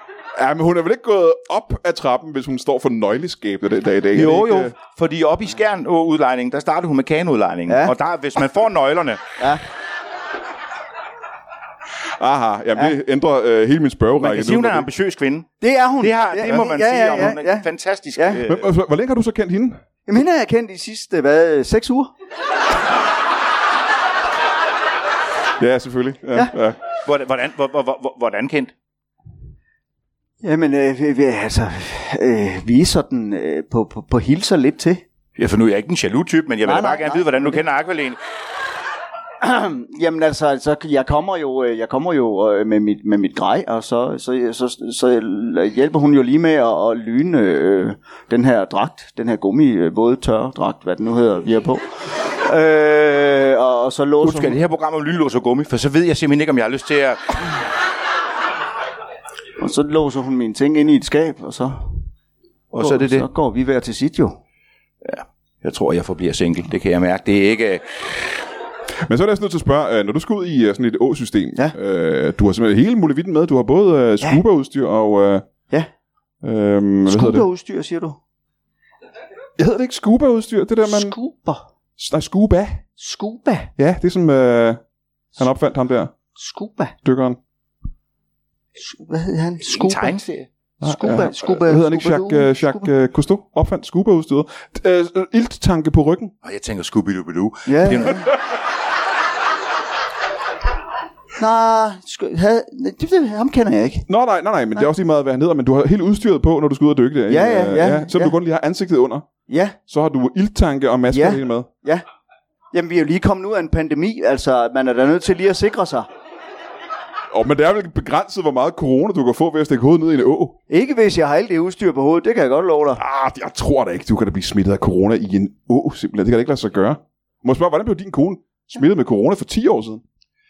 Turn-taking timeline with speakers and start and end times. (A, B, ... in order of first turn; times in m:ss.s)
0:00.4-0:04.7 A
0:04.1-0:09.2 B
0:07.7-0:07.9 C
0:12.2-0:14.9 A
0:14.2-0:18.7 B
0:15.6-0:18.4 C
0:18.4-0:19.8 A
0:20.1-0:22.1 C
0:25.6-0:26.8 A
0:27.0-0:28.7 B
0:30.4-0:35.0 C
0:35.4-0:38.2 B
0:36.6-0:37.6 C
0:39.4-0:54.6 C
0:54.2-0:57.4 B
0:59.6-1:02.0 C
1:02.7-1:03.3 B
1:02.8-1:04.4 C
1:05.0-1:08.1 B
1:09.0-1:15.5 A
1:16.4-1:17.4 A
1:17.1-1:18.2 C
1:19.6-1:21.2 A
1:20.8-1:21.7 C
1:22.0-1:22.8 A
1:23.0-1:23.7 C
1:23.8-1:24.8 A
1:25.4-1:26.1 A
1:26.4-1:27.0 C
1:27.0-1:27.4 A
1:28.8-1:30.1 C
1:29.6-1:30.5 B
1:30.8-1:32.9 C
1:30.8-1:36.3 A
1:36.4-1:38.3 B
1:37.7-1:38.2 C
1:41.4-1:44.1 C
1:44.1-1:49.2 A
1:47.3-1:48.3 C
1:49.5-1:49.8 C
1:49.9-1:51.7 A
1:51.1-1:52.0 C
1:52.7-1:56.1 C
1:57.3-2:00.6 A
2:00.7-2:03.0 C
2:03.0-2:10.0 A